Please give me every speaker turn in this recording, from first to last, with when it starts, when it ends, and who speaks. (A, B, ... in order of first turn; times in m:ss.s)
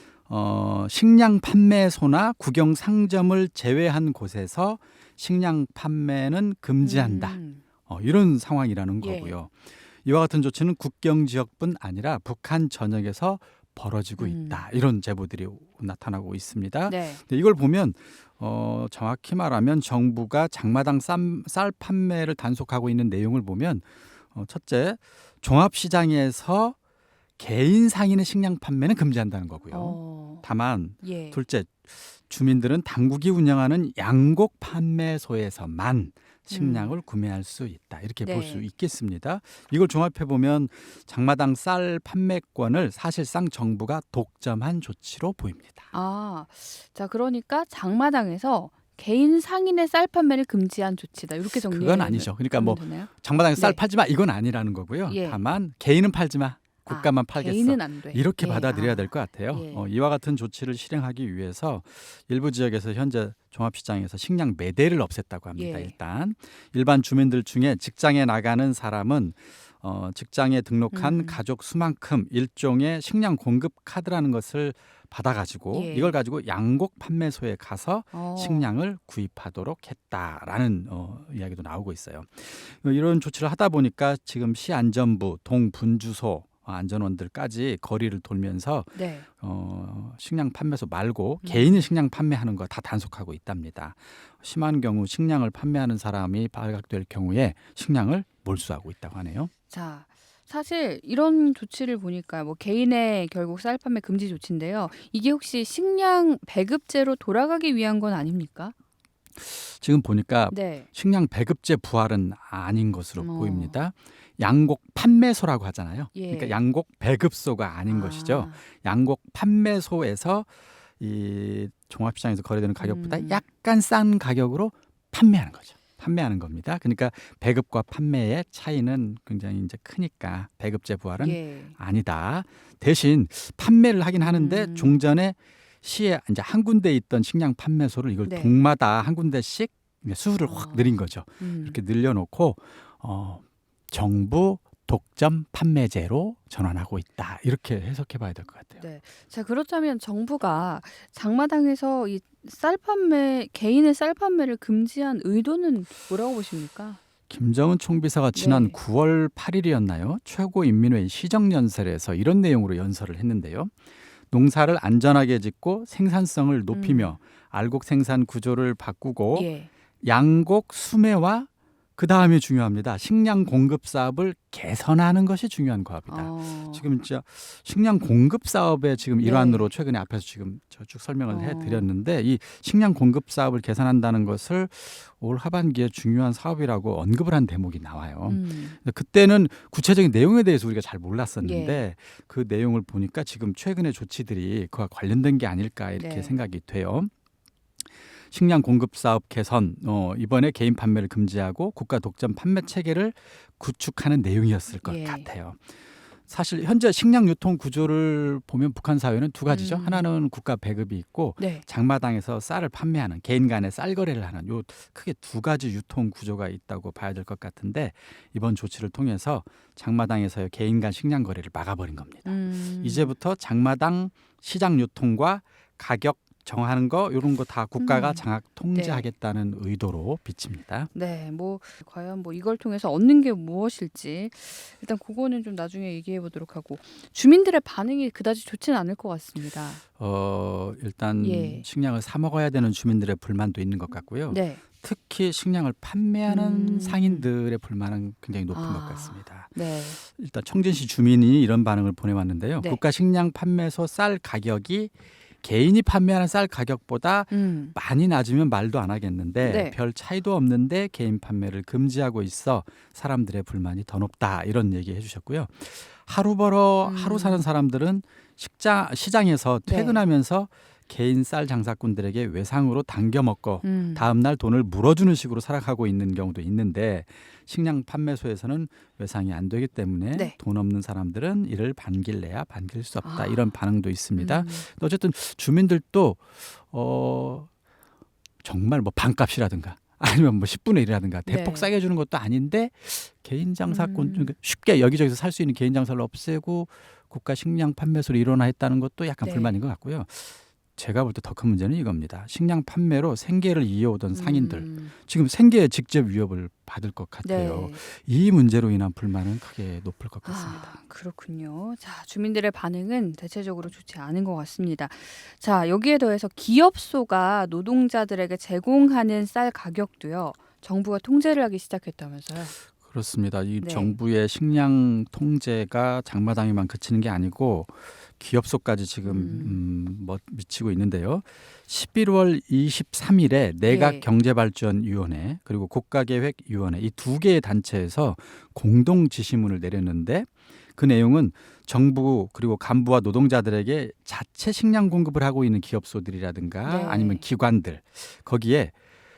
0:00.3-0:26.8 A
0:06.8-0:07.6 B
0:09.0-0:09.4 B
0:14.2-0:14.6 B
0:16.9-0:17.2 B
0:27.4-0:45.9 A
0:29.7-0:30.4 B
0:31.0-0:31.4 B
0:36.5-0:37.0 B
0:38.2-0:38.6 B
0:45.9-0:53.8 B
0:51.5-1:39.5 A
0:55.1-0:55.4 B
0:56.9-0:59.9 B
1:05.6-1:06.0 B
1:10.9-1:11.4 B
1:15.7-1:16.2 B
1:18.1-1:18.7 B
1:29.0-1:29.3 B
1:31.4-1:31.9 B
1:39.7-1:48.7 B
1:49.4-2:28.8 A
1:50.5-1:50.9 B
1:53.2-1:53.8 B
1:56.2-1:56.6 B
1:57.9-1:58.6 B
2:02.8-2:03.4 B
2:11.2-2:11.8 B
2:14.2-2:15.0 B
2:18.2-2:18.6 B
2:20.4-2:21.8 B
2:28.8-2:37.0 B
2:37.3-2:43.7 A
2:38.3-2:38.8 B
2:44.3-3:17.1 A
2:46.7-2:47.2 B
2:49.3-2:49.7 B
2:56.1-2:56.9 B
2:59.2-2:59.7 B
3:01.3-3:01.9 B
3:08.3-3:08.8 B
3:11.4-3:11.8 B
3:16.0-3:16.4 B
3:18.3-3:25.6 A
3:24.8-3:25.3 B
3:26.3-3:50.9 A
3:29.5-3:30.1 B
3:31.4-3:31.6 B
3:42.2-3:43.2 B
3:47.8-3:49.1 B
3:50.9-3:59.8 B
4:00.0-4:47.5 A
4:01.2-4:01.7 B
4:04.3-4:04.6 B
4:06.3-4:07.3 B
4:08.5-4:10.0 B
4:17.3-4:17.8 B
4:19.4-4:19.8 B
4:26.8-4:27.5 B
4:29.7-4:30.0 B
4:33.6-4:34.1 B
4:43.0-4:43.5 B
4:44.2-4:44.7 B
4:48.4-5:10.8 A
4:51.3-4:51.7 B
4:53.7-4:54.3 B
4:59.2-4:59.6 B
5:04.1-5:04.9 B
5:07.2-5:07.8 B
5:10.2-5:22.6 B
5:22.8-5:48.7 A
5:23.6-5:24.0 B
5:29.0-5:29.6 B
5:33.6-5:34.0 B
5:46.6-5:47.2 B